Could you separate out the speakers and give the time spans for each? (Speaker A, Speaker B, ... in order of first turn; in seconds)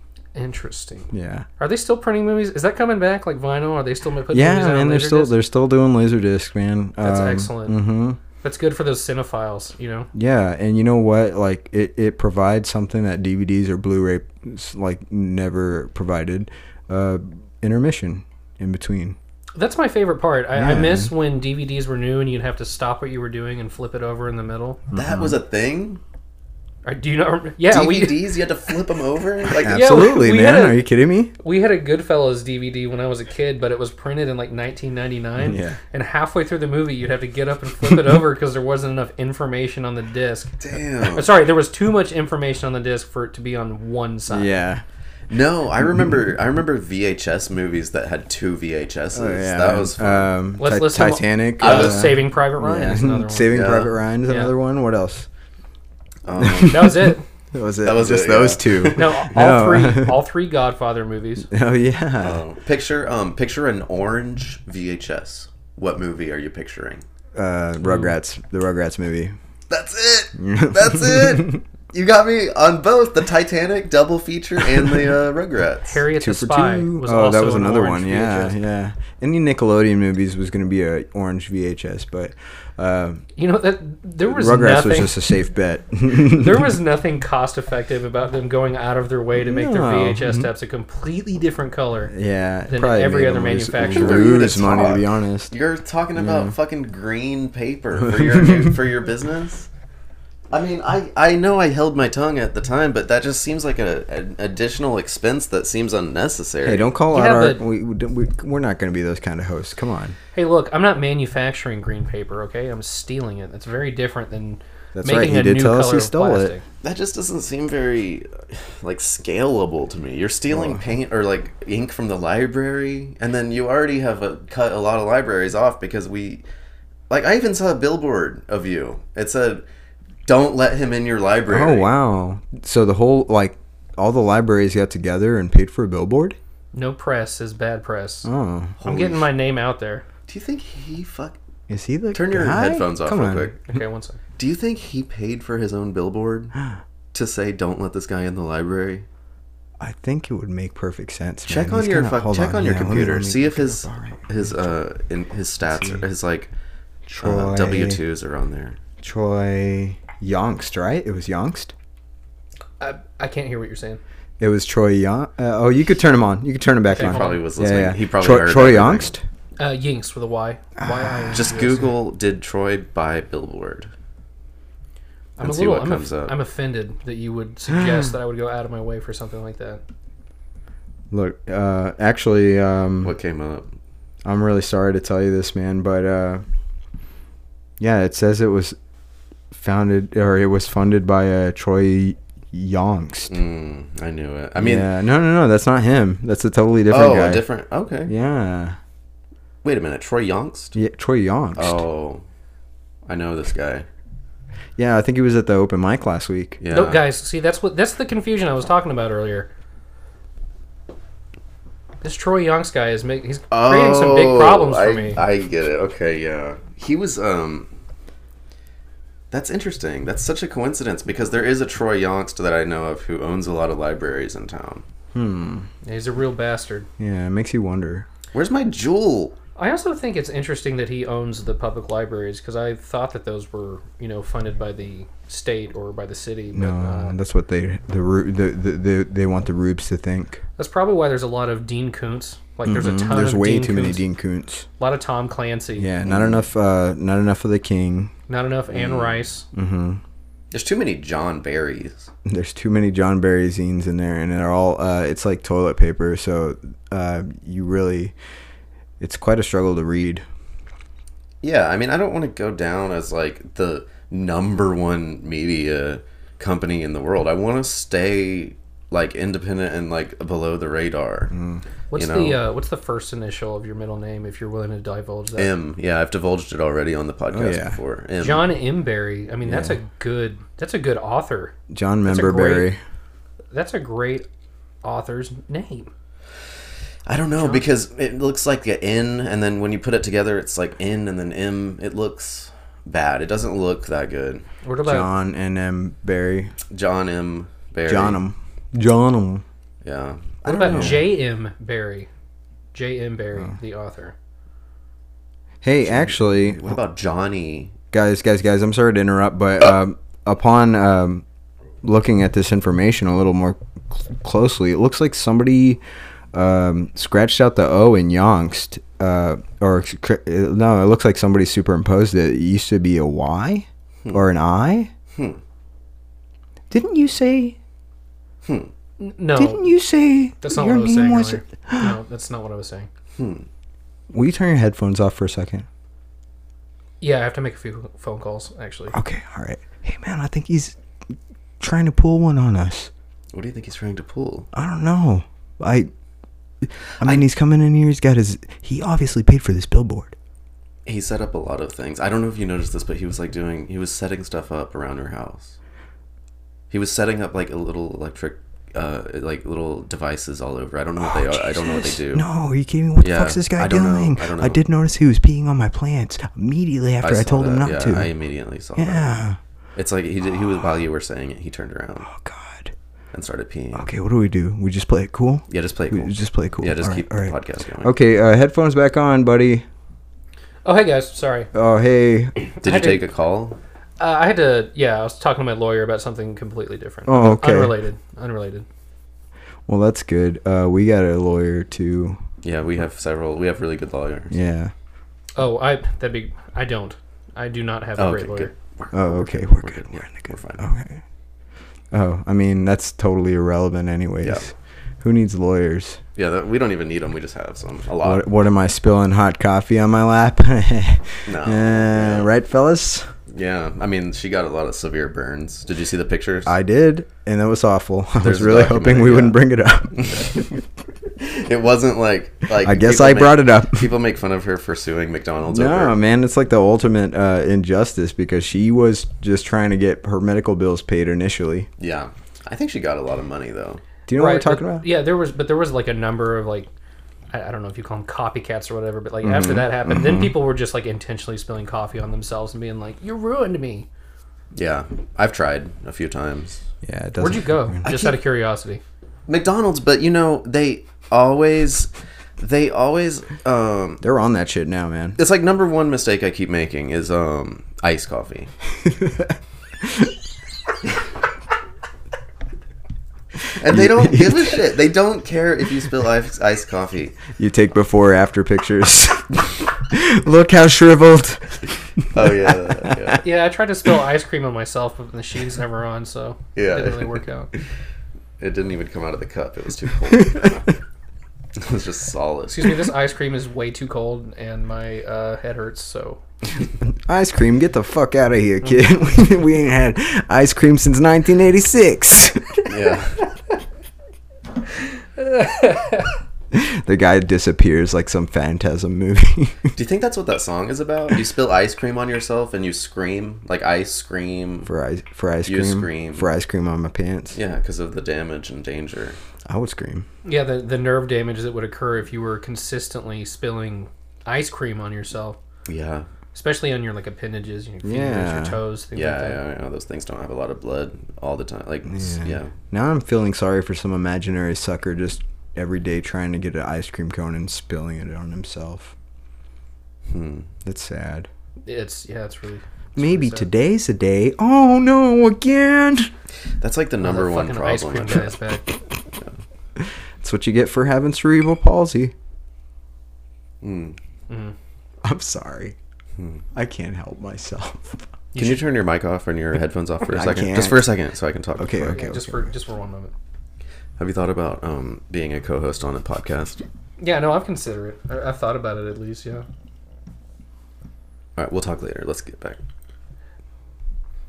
Speaker A: 0.3-5.3, 7.0-10.1, 19.5-24.8, 26.8-28.3, 29.5-30.8, 31.4-44.5, 50.6-53.7, 54.3-54.5, 56.6-57.2, 58.9-61.5, 67.8-68.1, 75.9-78.5, 83.3-85.2, 86.1-92.1, 92.7-94.4, 107.1-107.6, 110.3-116.6, 136.7-138.3, 138.8-140.0, 143.7-144.2, 162.8-164.0, 166.9-167.4, 169.6-171.8, 175.4-179.8, 206.7-209.5, 212.0-215.2, 225.8-226.9, 229.6-237.2, 240.6-244.0, 244.8-245.9, 248.3-249.4, 271.9-275.5, 278.2-281.5, 282.1-282.7, 283.5-284.2, 284.8-285.9, 287.4-287.6, 294.6-295.1, 300.4-302.1, 302.7-304.1, 329.0-329.7, 330.4-332.9, 337.0-338.9, 380.6-381.5, 382.5-383.0, 384.0-388.6, 395.4-398.5, 434.1-436.7, 437.3-443.9, 447.2-448.8, 473.2-477.5, 482.5-486.2, 495.1-496.1, 510.2-515.4, 516.3-519.4, 531.6-533.5, 537.0-538.7, 544.3-544.5, 548.3-548.6, 551.9-553.1, 557.0-559.4
Speaker B: 1.1-1.5, 4.3-8.2, 10.1-19.2, 20.5-21.1, 24.9-25.3, 29.6-31.3, 35.4-35.8, 44.3-44.8, 49.1-55.3, 56.4-60.2, 61.5-62.4, 67.3-69.3, 70.4-71.6, 76.1-83.2, 84.3-86.8, 89.3-90.5, 92.1-95.5, 96.2-96.5, 98.1-98.7, 106.6-110.2, 114.9-116.5, 120.5-120.8, 131.5-136.4, 138.2-138.8, 141.7-143.5, 146.5-146.8, 149.8-154.7, 155.7-156.0, 157.1-158.0, 159.0-161.7, 164.4-169.2, 170.8-171.7, 177.7-178.1, 181.1-183.1, 184.2-186.4, 187.8-188.8, 189.5-193.3, 194.6-197.4, 198.1-198.8, 200.7-201.8, 204.8-206.6, 225.1-225.7, 227.0-228.1, 236.5-240.4, 242.6-244.7, 245.8-248.1, 249.5-250.0, 252.2-258.1, 259.0-260.2, 271.3-271.6, 277.3-277.8, 279.4-279.8, 281.7-282.8, 294.8-296.5, 297.9-299.4, 300.4-301.1, 305.6-306.8, 307.9-311.2, 311.8-315.8, 316.3-324.9, 326.7-327.6, 329.4-332.0, 334.1-335.6, 338.9-340.8, 341.6-342.9, 344.5-345.9, 346.6-350.1, 361.0-368.1, 368.8-369.4, 372.0-372.7, 373.7-379.6, 381.5-382.4, 387.1-387.8, 389.7-392.2, 394.3-394.7, 398.9-401.0, 401.9-406.0, 408.0-413.1, 416.4-420.6, 422.6-423.9, 425.5-431.7, 434.1-434.9, 439.2-440.3, 446.8-447.8, 454.0-455.2, 458.8-460.1, 463.6-464.6, 467.3-473.1, 486.9-492.7, 496.5-499.7, 504.6-507.4, 509.5-510.1, 517.8-518.6, 521.9-528.9, 530.6-531.3, 533.0-536.1, 539.8-542.1, 545.0-545.8, 546.5-548.1, 550.0-550.9, 551.6-552.5
Speaker C: 24.9-26.0, 27.7-29.8, 40.6-41.3, 45.3-50.3, 51.6-52.2, 53.5-53.9, 56.2-57.1, 57.8-59.3, 62.2-67.0, 69.7-76.0, 93.8-99.7, 100.5-106.9, 116.8-126.4, 127.1-129.6, 130.2-131.9, 138.8-139.3, 140.3-141.4, 142.1-143.6, 144.4-146.5, 147.1-149.1, 151.5-156.5, 157.2-158.8, 167.0-169.1, 171.3-173.9, 175.4-176.4, 183.0-183.7, 193.3-194.9, 196.9-198.1, 199.6-200.8, 201.6-202.2, 203.1-203.8, 206.6-207.0, 213.5-217.7, 219.3-224.8, 228.3-229.3, 246.0-246.4, 248.7-249.3, 250.5-252.1, 261.4-271.3, 271.9-272.4, 275.4-278.5, 287.1-294.4, 296.7-298.2, 299.8-301.1, 305.8-307.7, 325.1-325.4, 328.4-328.7, 333.1-333.4, 343.3-344.5, 347.0-347.2, 350.9-355.6, 356.7-362.2, 363.0-364.6, 367.0-369.1, 369.8-372.1, 373.1-373.9, 375.5-377.9, 382.6-383.6, 392.4-394.3, 398.0-400.6, 406.1-408.3, 411.2-412.3, 413.3-416.5, 418.2-419.4, 419.9-420.5, 421.2-426.0, 431.8-433.8, 444.5-446.6, 447.8-448.2, 449.3-454.0, 455.2-458.5, 463.5-467.2, 472.1-473.2, 476.6-477.6, 478.4-480.7, 481.6-482.9, 492.6-493.2, 499.7-504.7, 505.4-506.3, 507.3-509.2, 515.6-516.0, 518.9-522.5, 530.1-530.5, 536.6-538.3, 543.6-544.0, 548.3-552.0, 554.0-556.6, 561.4-562.6